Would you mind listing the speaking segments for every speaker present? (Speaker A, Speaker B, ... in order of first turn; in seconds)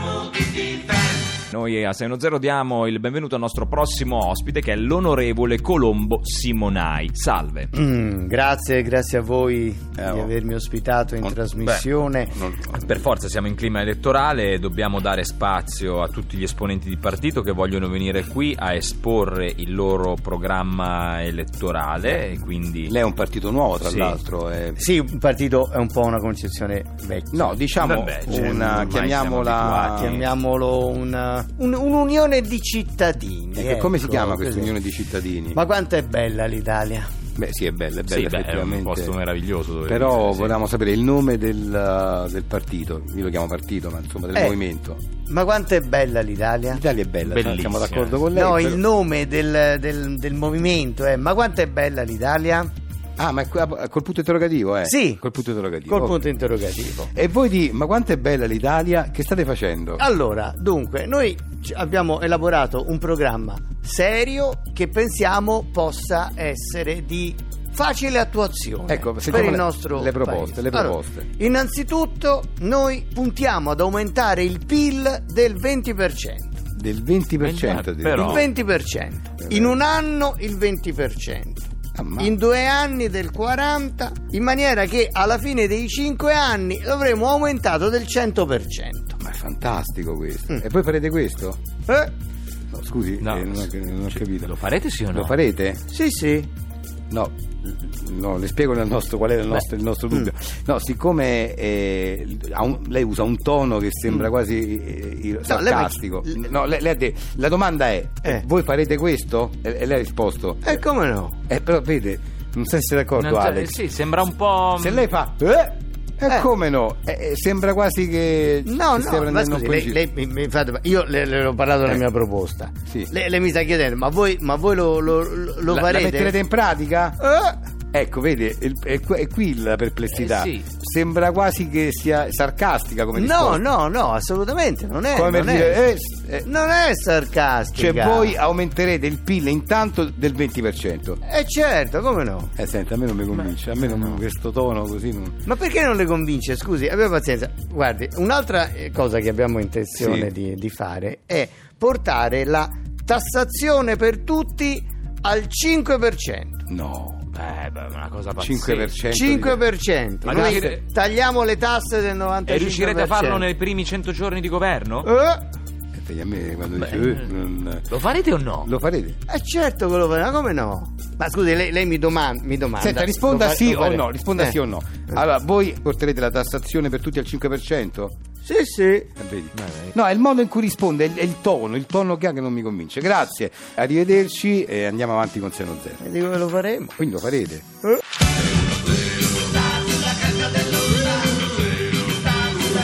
Speaker A: 1.5-7.7, 12.7-22.9, 23.8-24.2, 27.8-30.3, 38.1-40.6, 47.2-48.2, 77.4-78.5, 93.2-95.4, 113.2-115.1, 130.1-130.6, 157.3-159.0, 160.2-160.8, 162.5-165.1, 166.8-167.3, 167.9-168.7, 179.5-179.9
Speaker B: 7.8-12.3, 24.8-27.5, 28.2-29.0, 29.9-34.7, 35.5-37.1, 44.3-44.6, 45.3-46.8, 48.3-52.7, 54.8-55.2, 55.9-57.1, 60.0-76.5, 78.1-81.7, 82.2-89.2, 95.9-96.5, 105.5-106.4, 110.7-111.3, 118.7-126.3, 133.1-135.8, 136.4-138.3, 141.2-142.5, 145.4-156.6, 159.1-163.4, 165.0-165.4, 169.3-174.6, 178.4-179.1, 186.2-187.0
Speaker C: 10.0-10.3, 11.2-13.0, 22.9-24.8, 27.3-30.2, 33.6-35.6, 37.4-39.1, 39.9-45.0, 46.7-48.8, 53.2-56.2, 57.1-60.0, 68.9-71.3, 76.7-78.5, 79.4-79.8, 82.0-82.3, 89.2-91.6, 92.7-94.5, 95.1-95.8, 97.1-110.8, 111.5-113.8, 114.8-120.0, 125.7-127.2, 127.9-133.7, 135.1-136.5, 137.7-141.2, 142.6-145.4, 150.0-150.3, 156.7-157.2, 158.4-159.7, 160.2-160.8, 165.9-167.9, 168.6-169.2, 172.8-178.2, 179.2-186.0, 187.0-187.7